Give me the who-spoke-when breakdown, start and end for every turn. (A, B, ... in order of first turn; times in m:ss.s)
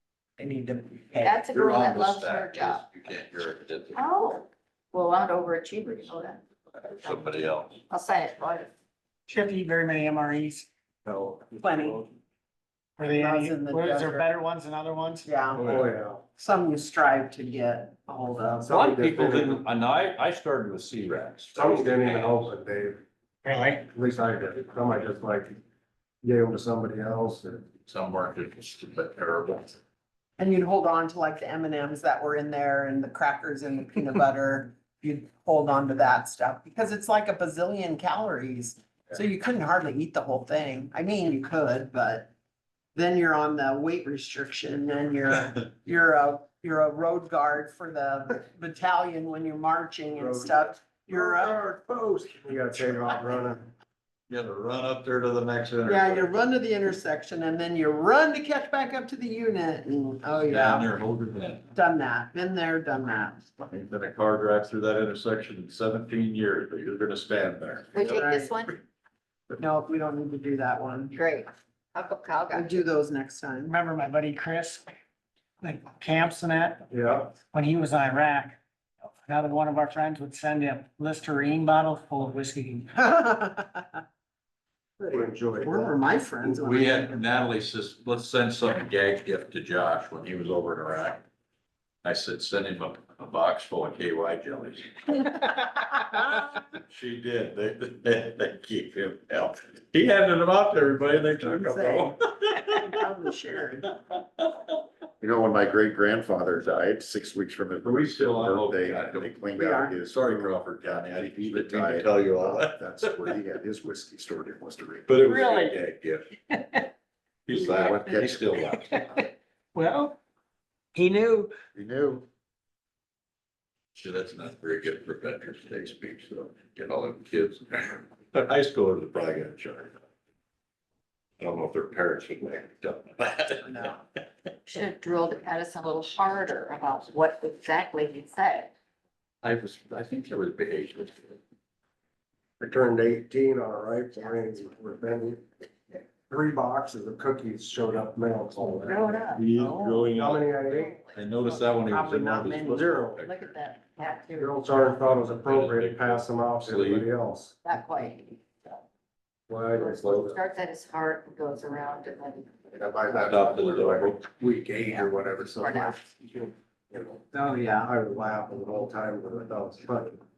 0:00.4-0:01.4 A
0:01.2-0:02.8 B
0:01.5-0:04.0 C
0:04.0-0:06.4 B
0:06.9-0:07.8 C
0:07.9-0:08.7 B
0:09.3-0:10.7 D
0:11.0-0:12.1 E
0:11.6-0:12.0 A
0:13.0-0:15.4 D
0:13.1-0:14.3 A
0:15.2-0:18.8 A
0:15.6-0:16.2 E
0:18.6-0:19.6 E
0:18.7-0:22.4 C
0:21.5-0:23.0 E
0:23.4-0:23.9 D
0:23.9-0:25.6 E
0:26.2-0:27.7 E
0:27.9-0:29.8 C
0:30.4-0:42.3 A
0:43.0-0:51.6 A
0:50.2-0:53.7 E
0:54.3-0:56.3 C
0:55.9-1:00.9 A
1:00.3-1:01.7 C
1:01.7-1:03.5 A
1:03.6-1:08.2 C
1:07.9-1:08.8 B
1:08.0-1:08.5 A
1:09.6-1:11.2 A
1:11.1-1:12.8 B
1:12.5-1:13.7 A
1:13.6-1:14.9 D
1:15.6-1:18.6 D
1:16.9-1:17.3 E
1:19.3-1:23.0 D
1:23.0-1:24.0 A
1:25.0-1:26.5 E
1:25.6-1:27.2 A
1:26.6-1:31.2 C
1:32.0-1:35.5 C
1:36.1-1:36.4 A
1:36.9-1:43.0 C
1:41.3-1:43.9 A
1:44.0-1:44.8 C
1:45.2-1:55.1 F
1:47.8-1:49.4 C
1:49.6-1:50.0 A
1:50.1-1:53.4 C
1:55.1-1:56.4 C
1:55.2-1:55.8 D
1:57.5-1:59.0 C
1:57.6-1:59.2 F
1:58.9-1:59.2 D
1:59.8-2:00.2 D
2:01.0-2:01.5 D
2:01.7-2:02.2 F
2:04.0-2:10.0 C
2:11.4-2:14.0 C
2:13.6-2:14.0 A
2:14.7-2:18.7 B
2:19.4-2:21.4 C
2:22.6-2:25.4 E
2:24.2-2:24.4 B
2:26.3-2:29.2 E
2:28.8-2:29.4 B
2:29.3-2:33.6 C
2:29.6-2:30.2 A
2:30.1-2:30.9 E
2:30.7-2:31.6 B
2:31.7-2:33.1 A
2:32.7-2:33.2 E
2:33.2-2:35.2 B
2:34.4-2:37.5 E
2:35.3-2:37.1 C
2:37.6-2:38.8 B
2:39.5-2:40.4 E
2:39.7-2:43.6 B
2:42.7-2:47.2 E
2:43.3-2:44.2 C
2:44.8-2:46.1 B
2:47.3-2:47.9 A
2:47.8-2:50.2 E